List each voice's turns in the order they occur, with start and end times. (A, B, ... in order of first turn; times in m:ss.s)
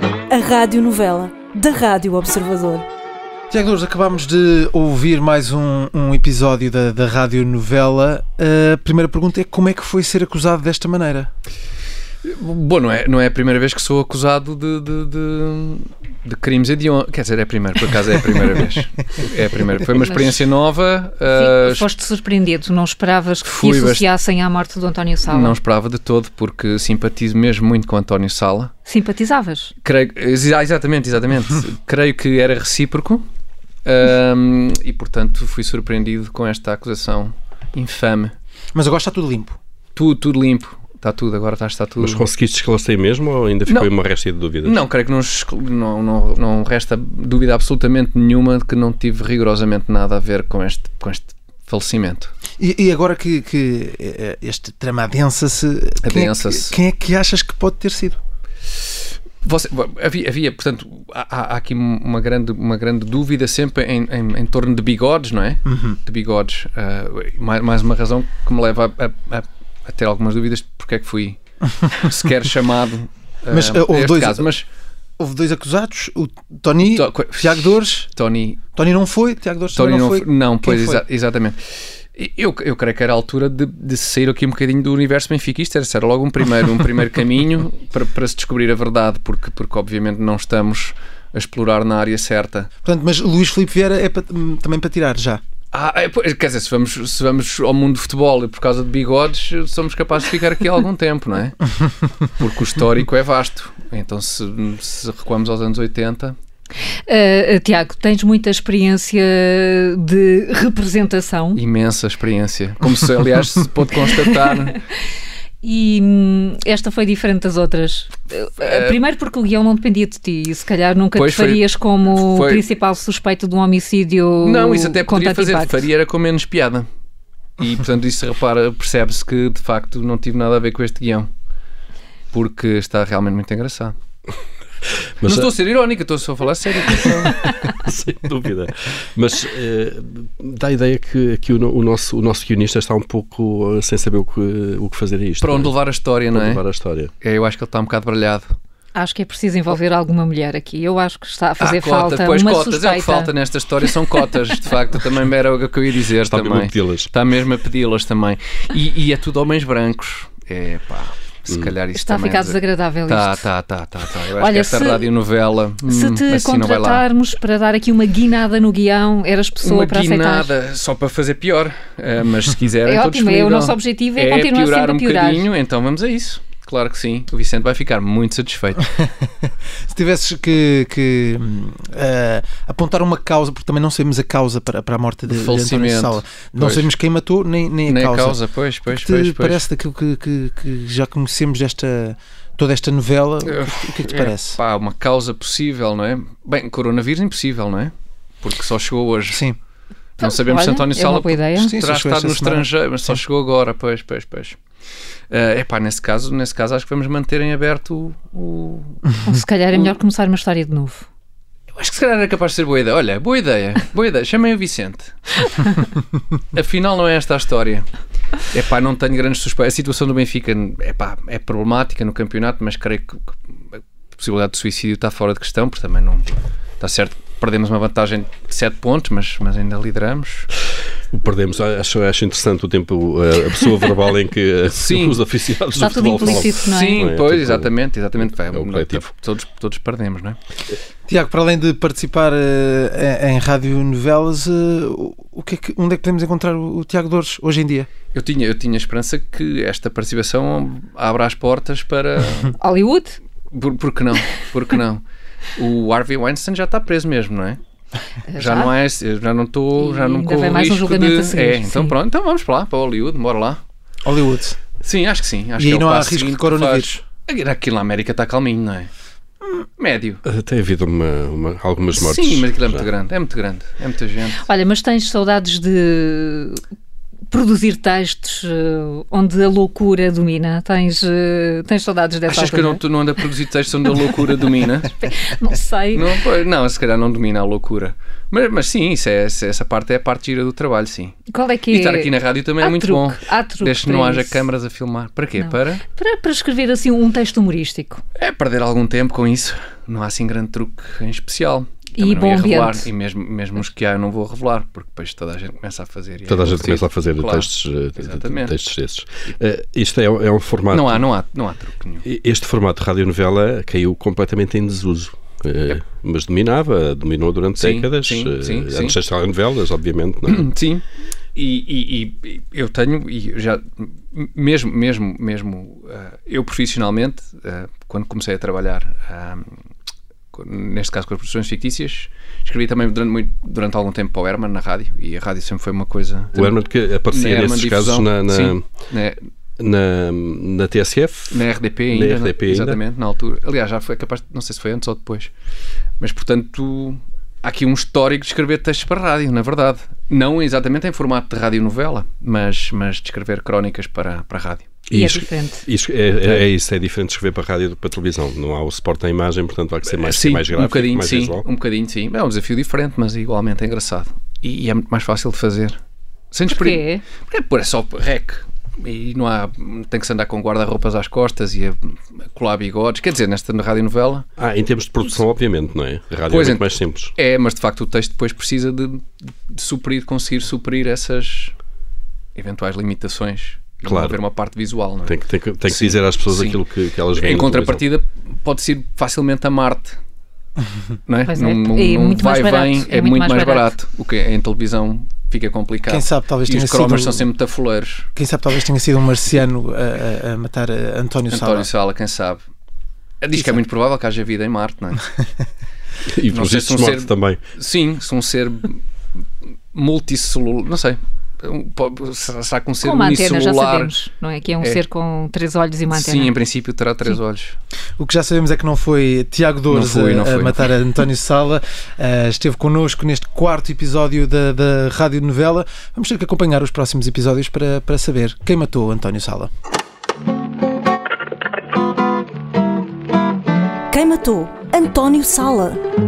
0:00.3-0:02.9 A
0:03.5-0:11.3 B
0:12.2-0:21.9 C
0:21.2-0:25.6 D
0:23.4-0:24.1 C
0:25.3-0:28.7 C
0:28.8-0:29.7 D
0:29.8-0:33.2 C
0:33.8-0:38.3 C
0:38.7-0:39.6 B
0:39.9-0:42.3 C
0:42.0-0:44.8 E
0:43.6-0:43.9 C
0:44.6-0:52.3 C
0:52.6-0:58.2 B
0:56.0-0:56.8 C
0:59.4-1:11.4 C
1:05.7-1:06.0 B
1:11.9-1:14.7 C
1:13.5-1:14.5 B
1:15.2-1:18.1 B
1:16.9-1:18.6 C
1:18.8-1:21.0 B
1:19.7-1:21.6 C
1:22.1-1:32.7 C
1:32.8-1:35.4 B
1:35.7-1:41.6 C
1:42.4-1:46.4 C
1:47.1-1:51.6 D
1:51.5-1:54.8 C
1:55.6-2:05.8 D
1:58.6-1:59.0 C
2:01.1-2:02.6 C
2:04.4-2:06.9 C
2:07.6-2:11.3 C
2:12.3-2:13.9 C
2:15.2-2:15.5 E
2:15.3-2:17.4 C
2:16.8-2:27.1 E
2:25.4-2:26.6 C
2:27.2-2:28.5 C
2:28.9-2:33.3 D
2:31.6-2:47.0 C
2:36.2-2:37.1 E
2:41.9-2:43.3 D
2:44.4-2:45.0 D
2:45.8-2:50.5 D
2:49.6-2:58.9 C
2:52.8-2:55.4 D
2:59.9-3:14.6 B
3:05.3-3:06.9 C
3:07.8-3:09.7 C
3:13.4-3:19.4 C
3:19.3-3:19.6 B
3:20.2-3:24.6 C
3:20.2-3:21.7 D
3:21.6-3:23.2 B
3:25.3-3:29.1 C
3:29.2-3:31.1 D
3:31.7-3:35.2 C
3:36.5-3:37.9 C
3:38.5-3:46.2 C
3:46.8-3:50.5 C
3:51.1-3:59.0 E
3:54.8-3:55.2 C
3:55.8-3:57.0 D
3:56.2-4:00.4 C
4:01.1-4:07.9 B
4:08.1-4:12.6 C
4:12.6-4:13.2 D
4:13.5-4:15.0 C
4:15.6-4:17.6 C
4:18.3-4:18.7 D
4:18.4-4:23.6 C
4:19.8-4:21.9 D
4:24.0-4:24.6 B
4:24.8-4:28.9 C
4:25.6-4:27.0 B
4:29.8-4:30.2 C
4:30.2-4:32.9 E
4:31.9-4:34.4 C
4:34.4-4:36.6 D
4:37.3-4:42.8 D
4:42.3-4:44.9 C
4:44.9-4:46.1 D
4:45.9-4:51.2 C
4:51.3-4:52.1 D
4:51.7-4:55.8 C
4:52.6-4:54.4 D
4:55.4-4:58.0 D
4:58.2-5:08.5 C
5:02.0-5:02.8 D
5:06.2-5:11.1 E
5:10.7-5:12.1 C
5:12.0-5:20.5 E
5:17.6-5:19.0 C
5:20.3-5:20.8 C
5:21.3-5:29.6 C
5:30.3-5:39.2 C
5:36.3-5:38.7 E
5:39.6-5:42.8 E
5:41.3-5:45.3 C
5:46.0-5:54.8 C
5:54.9-6:01.4 E
5:54.9-5:55.7 D
5:59.8-6:05.8 C
6:06.3-6:14.2 C
6:06.5-6:07.0 D
6:14.4-6:17.1 E
6:16.3-6:21.5 C
6:22.3-6:26.6 C
6:23.8-6:24.2 E
6:25.0-6:27.8 E
6:27.2-6:30.0 C
6:31.1-6:38.1 C
6:31.2-6:33.7 D
6:35.8-6:37.3 B
6:38.2-6:41.7 B
6:41.3-6:42.4 C
6:43.2-6:45.0 C
6:46.0-6:47.4 E
6:46.3-6:48.8 C
6:49.7-6:53.9 C
6:52.8-6:56.3 D
6:55.9-6:57.6 C
6:58.0-7:09.5 B
6:59.7-7:00.7 C
7:13.9-7:15.8 A